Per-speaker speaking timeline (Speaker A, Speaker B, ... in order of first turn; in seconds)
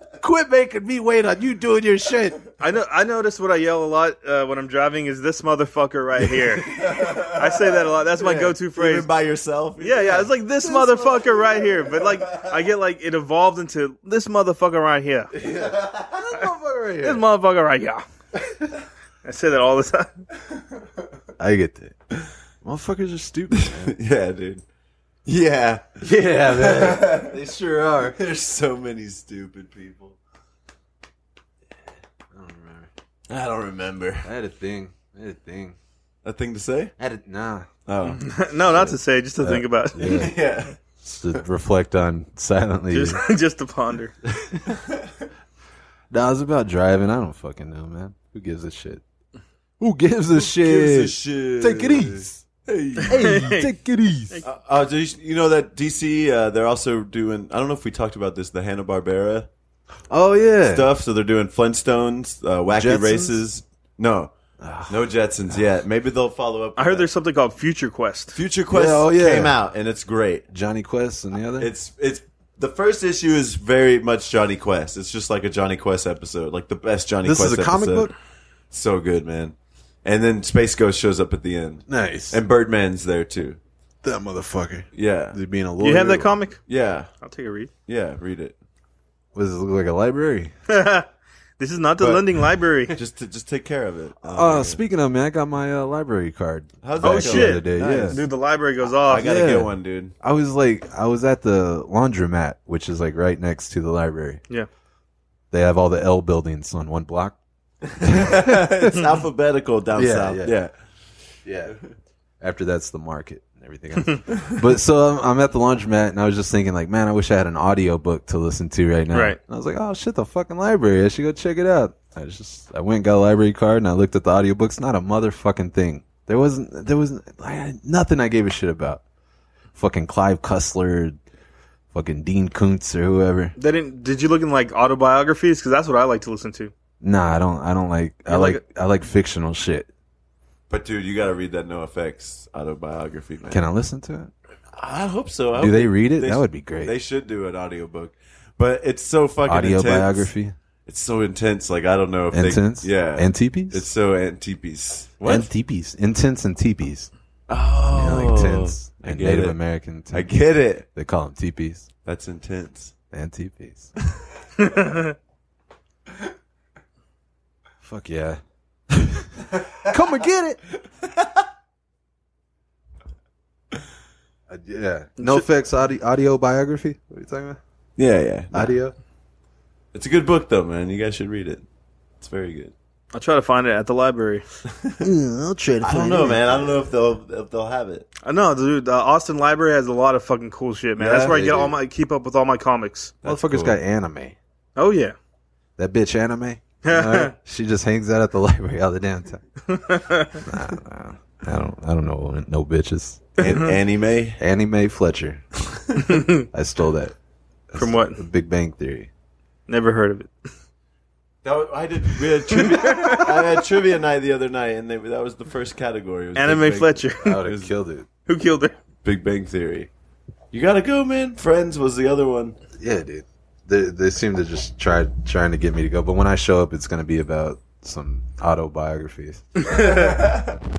Speaker A: 0.2-2.4, 10.6-11.2, 15.3-17.2, 21.4-21.9, 22.6-23.9, 26.0-28.2, 32.3-32.9, 34.2-35.8, 37.0-37.7, 38.6-40.4, 41.0-43.2, 44.4-44.6, 46.1-49.0, 49.8-52.4, 53.0-54.4, 60.1-60.9, 62.7-63.4, 64.6-65.6, 68.7-69.5, 70.5-71.7, 77.2-78.1, 81.9-82.4, 84.0-86.3, 89.3-90.5, 94.3-98.2, 99.1-104.4, 105.5-107.4, 108.0-109.0, 109.9-110.5, 111.4-111.8, 112.4-129.0, 129.7-131.2, 131.9-133.5, 137.0-139.9, 143.5-144.3, 145.5-146.9, 149.4-150.5, 152.3-153.9, 155.2-157.1, 157.9-161.9, 163.1-163.9, 167.8-170.6, 174.5-177.6, 178.5-178.9, 185.0-186.7, 191.2-191.7, 193.2-194.4, 195.8-199.4, 200.4-203.6, 204.4-205.5, 206.3-207.1, 207.7-209.1, 217.2-218.1, 222.8-229.7
Speaker B: 2.6-9.1, 9.8-15.3, 17.0-18.0, 19.2-20.1, 38.1-40.3, 42.9-44.1, 53.1-53.7, 66.8-68.4, 85.8-86.6, 87.2-87.7, 90.7-91.1, 91.6-93.0, 97.0-99.3, 119.1-119.4, 133.6-136.7, 138.3-138.6, 164.6-165.1, 175.2-175.5, 183.1-184.4, 188.2-193.1, 194.8-195.1, 196.8-197.3, 199.7-200.4, 203.4-203.7, 205.9-206.5, 207.7-208.2, 209.7-210.3, 212.5-213.4, 216.3-217.4, 218.2-218.8, 229.6-230.3
Speaker C: 6.6-10.3, 15.4-16.2, 23.5-24.6, 25.2-27.3, 28.1-30.2, 33.3-34.3, 36.2-36.9, 37.9-38.2, 40.0-40.8, 44.7-45.1, 50.4-53.4, 54.4-59.5, 60.7-64.3, 64.9-67.1, 68.3-70.5, 71.6-78.1, 78.7-83.6, 84.9-85.4, 86.7-87.1, 87.9-88.5, 92.9-94.8, 96.8-98.3, 99.1-100.1, 107.9-110.7, 111.6-111.9, 140.7-143.7, 144.8-150.3, 150.9-155.5, 157.5-159.6, 160.1-160.9, 162.0-162.9, 178.0-178.7, 179.9-181.7, 182.2-182.7, 184.7-185.0, 185.8-188.0, 191.0-191.4, 193.2-193.8, 203.4-204.4, 211.4-217.7, 219.0-219.9, 220.5-222.6, 229.8-230.6